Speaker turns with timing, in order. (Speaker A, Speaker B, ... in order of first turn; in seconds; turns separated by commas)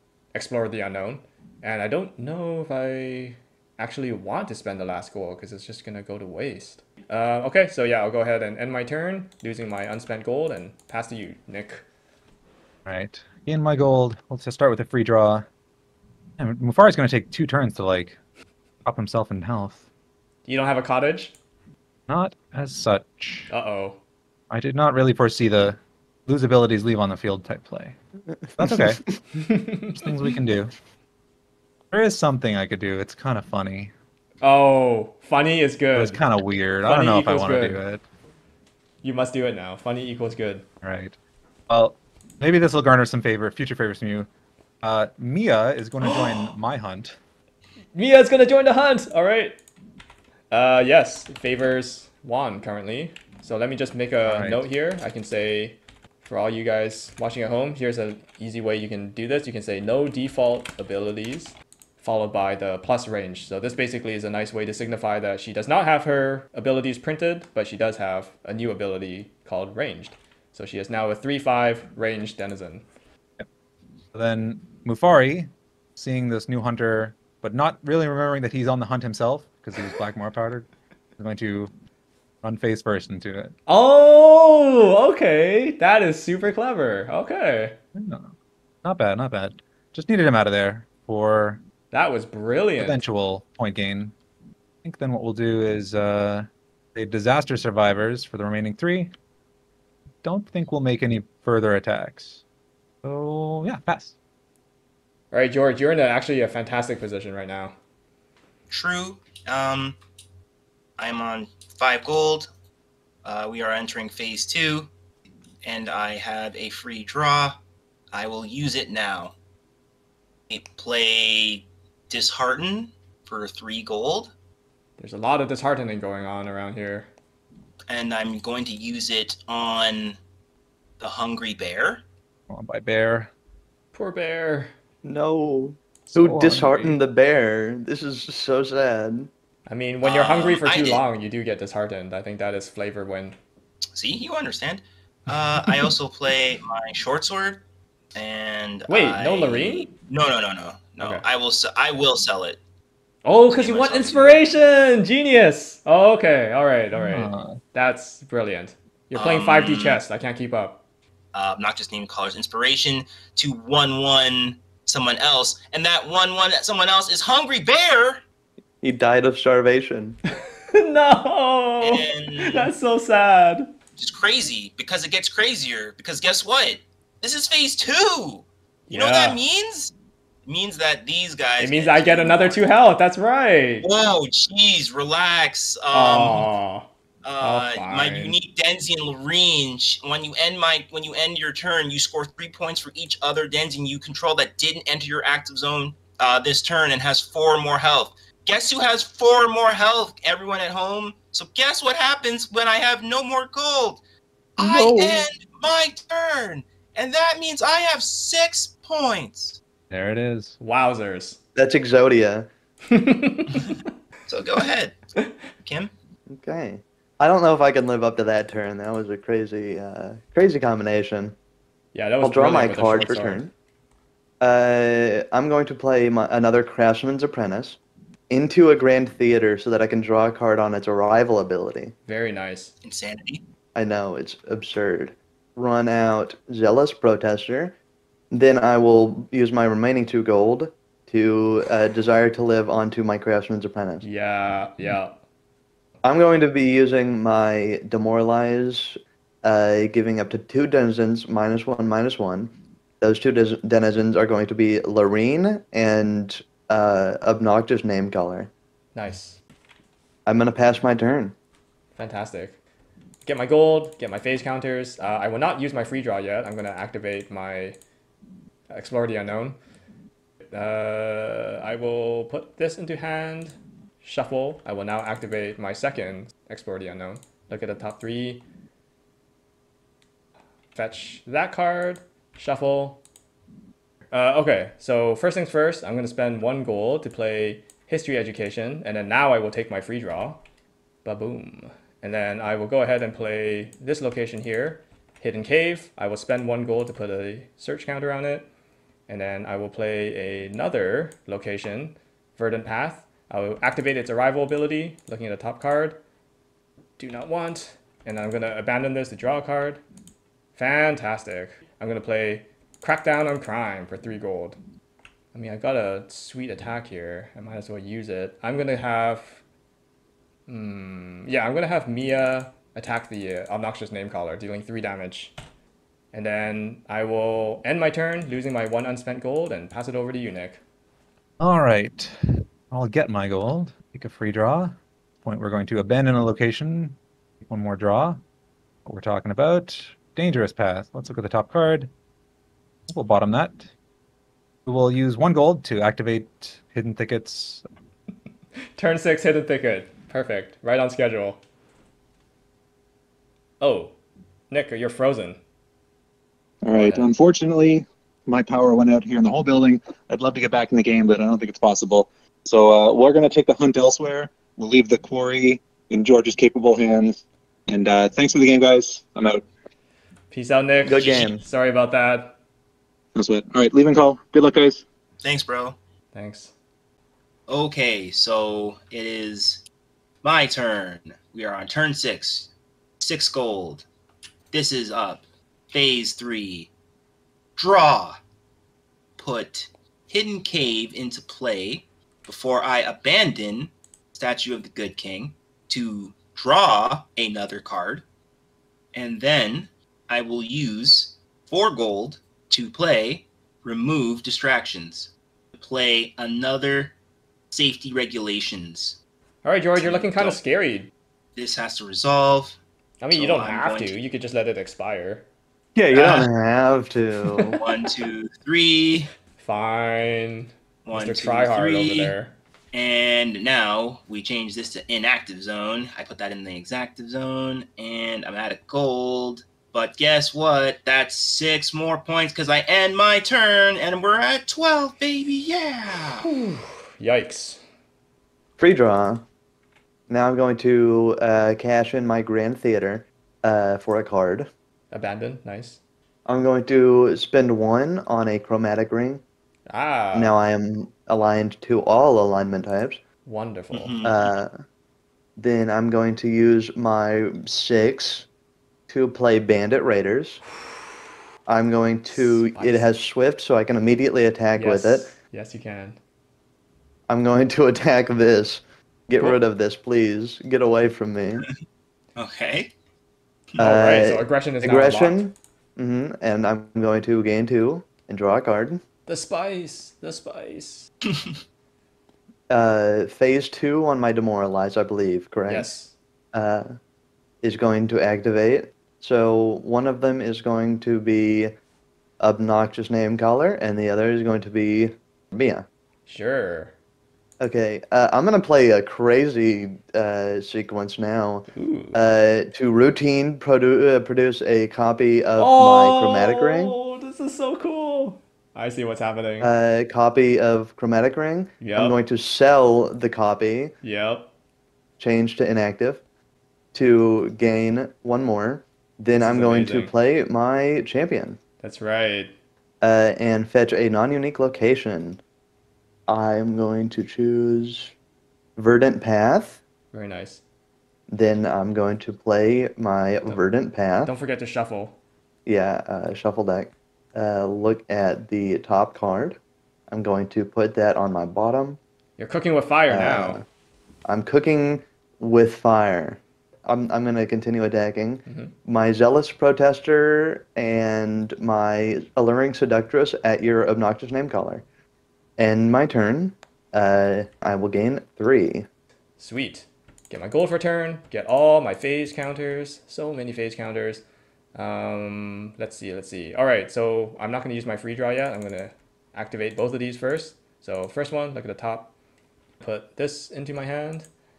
Speaker A: 0.3-11.8, Speaker B: 12.8-15.4, Speaker B: 16.4-18.2, Speaker B: 18.8-19.8, Speaker A: 20.4-21.3, Speaker B: 22.1-23.5, Speaker A: 23.5-24.0, Speaker B: 24.5-27.9, Speaker B: 28.6-29.0, Speaker A: 29.4-30.0, Speaker B: 29.9-30.7, Speaker B: 31.9-33.9, Speaker A: 34.4-36.2, Speaker B: 35.9-38.0, Speaker A: 36.8-37.8, Speaker A: 39.0-40.6, Speaker B: 40.8-41.1, Speaker B: 41.7-44.3, Speaker B: 44.8-47.2, Speaker A: 46.0-46.5, Speaker A: 47.9-49.6, Speaker A: 50.5-72.8, Speaker B: 54.2-54.6, Speaker B: 74.1-81.7, Speaker B: 82.4-83.5, Speaker A: 83.7-87.8, Speaker B: 87.9-88.3, Speaker B: 88.8-91.6, Speaker A: 91.9-93.0, Speaker B: 92.8-94.1, Speaker B: 94.8-99.1, Speaker B: 100.2-102.4, Speaker B: 103.0-104.1, Speaker A: 105.3-107.7, Speaker C: 108.7-110.0, Speaker C: 111.0-112.5, Speaker C: 113.2-114.9, Speaker C: 115.6-117.6, Speaker C: 118.1-119.3, Speaker C: 120.5-124.3, Speaker A: 125.0-127.1, Speaker C: 127.9-130.2, Speaker C: 131.0-132.0, Speaker B: 132.5-133.3, Speaker A: 133.9-134.7, Speaker D: 135.0-139.3, Speaker B: 136.1-137.0, Speaker A: 139.7-143.4, Speaker C: 140.0-141.0, Speaker C: 143.9-147.6, Speaker C: 148.1-152.6, Speaker A: 148.9-149.9, Speaker A: 153.2-160.8, Speaker C: 153.5-154.4, Speaker B: 156.9-157.6, Speaker C: 159.1-160.0, Speaker C: 161.3-168.2, Speaker D: 168.8-170.2, Speaker A: 170.7-173.7, Speaker C: 171.8-172.7, Speaker C: 174.0-179.9, Speaker A: 178.9-179.4, Speaker C: 180.4-182.7, Speaker A: 181.6-183.9, Speaker C: 183.8-186.5, Speaker A: 185.9-186.9, Speaker C: 187.2-204.0, Speaker A: 187.4-188.3, Speaker D: 204.6-205.3, Speaker C: 204.6-209.6, Speaker B: 209.9-210.6, Speaker A: 210.6-211.4, Speaker D: 211.6-212.5, Speaker A: 212.9-213.7, Speaker C: 214.3-215.0, Speaker C: 215.6-215.9, Speaker D: 216.3-221.3, Speaker A: 221.9-223.4, Speaker D: 222.2-223.5, Speaker D: 224.4-227.8, Speaker D: 228.3-231.9, Speaker A: 232.1-232.7, Speaker C: 232.8-233.4, Speaker D: 233.7-237.7, Speaker D: 238.3-244.0, Speaker A: 244.0-245.2, Speaker D: 246.0-258.5, Speaker A: 258.9-259.4, Speaker D: 260.2-261.3, Speaker A: 261.9-262.6, Speaker A: 263.2-267.8, Speaker A: 268.7-269.6, Speaker A: 270.4-278.4, Speaker A: 280.7-283.0, Speaker A: 284.1-290.4, Speaker A: 291.0-298.5, Speaker A: 299.1-306.0, Speaker A: 307.0-309.8, Speaker A: 310.6-314.6, Speaker A: 315.3-319.4, Speaker A: 320.5-325.3, Speaker A: 326.1-330.6, Speaker B: 331.4-338.2, Speaker B: 338.8-341.9, Speaker B: 342.9-343.7, Speaker B: 344.6-347.6, Speaker A: 348.8-351.4, Speaker A: 353.6-353.9, Speaker A: 354.5-355.4, Speaker E: 356.6-369.4, Speaker A: 356.7-357.0, Speaker A: 370.3-372.3, Speaker D: 370.8-371.4, Speaker E: 373.1-374.8, Speaker C: 375.2-375.8, Speaker A: 376.1-376.5, Speaker C: 377.5-379.6, Speaker C: 380.2-382.5, Speaker C: 383.0-383.8, Speaker C: 384.5-386.7, Speaker C: 387.6-388.2, Speaker C: 389.2-398.0, Speaker C: 398.9-406.9, Speaker C: 407.5-409.0, Speaker A: 409.4-410.9, Speaker C: 409.8-410.4, Speaker C: 411.4-412.6, Speaker A: 413.0-415.2, Speaker C: 413.1-413.9, Speaker D: 415.8-417.6, Speaker C: 415.9-416.3, Speaker C: 417.6-419.1, Speaker A: 419.4-422.3, Speaker C: 420.8-422.1, Speaker C: 422.7-436.2, Speaker A: 436.2-437.6, Speaker D: 438.6-439.2, Speaker D: 440.1-444.5, Speaker A: 444.9-445.8, Speaker D: 446.2-449.2, Speaker A: 449.7-450.4, Speaker D: 450.1-453.0, Speaker A: 453.2-453.9, Speaker C: 453.7-454.3, Speaker D: 454.0-454.5, Speaker D: 455.4-458.2, Speaker D: 458.9-460.4, Speaker D: 461.5-465.1, Speaker A: 462.1-462.9, Speaker A: 464.6-466.0, Speaker D: 467.1-471.5, Speaker C: 472.1-472.7, Speaker A: 473.6-475.2, Speaker D: 473.6-478.8, Speaker A: 479.1-480.9, Speaker D: 482.5-485.7, Speaker A: 485.5-485.9, Speaker D: 486.3-486.7, Speaker D: 487.4-491.5, Speaker D: 492.2-495.6, Speaker A: 496.1-496.7, Speaker D: 497.4-506.7, Speaker A: 501.5-502.0, Speaker A: 505.4-509.5, Speaker D: 509.4-513.7, Speaker A: 511.6-512.0, Speaker A: 513.8-514.3, Speaker D: 515.0-516.0, Speaker D: 516.7-521.4, Speaker A: 519.1-519.9, Speaker A: 521.6-522.3, Speaker D: 522.8-525.2, Speaker D: 526.1-527.9, Speaker D: 528.6-529.6, Speaker A: 529.9-530.4, Speaker D: 531.1-534.1, Speaker A: 534.0-535.0, Speaker D: 535.5-539.4, Speaker D: 539.9-541.8, Speaker A: 542.2-543.4, Speaker D: 542.9-543.4, Speaker D: 544.0-554.6, Speaker A: 548.2-548.5, Speaker D: 555.4-558.6, Speaker A: 559.2-564.0, Speaker A: 564.5-571.9, Speaker A: 572.6-574.1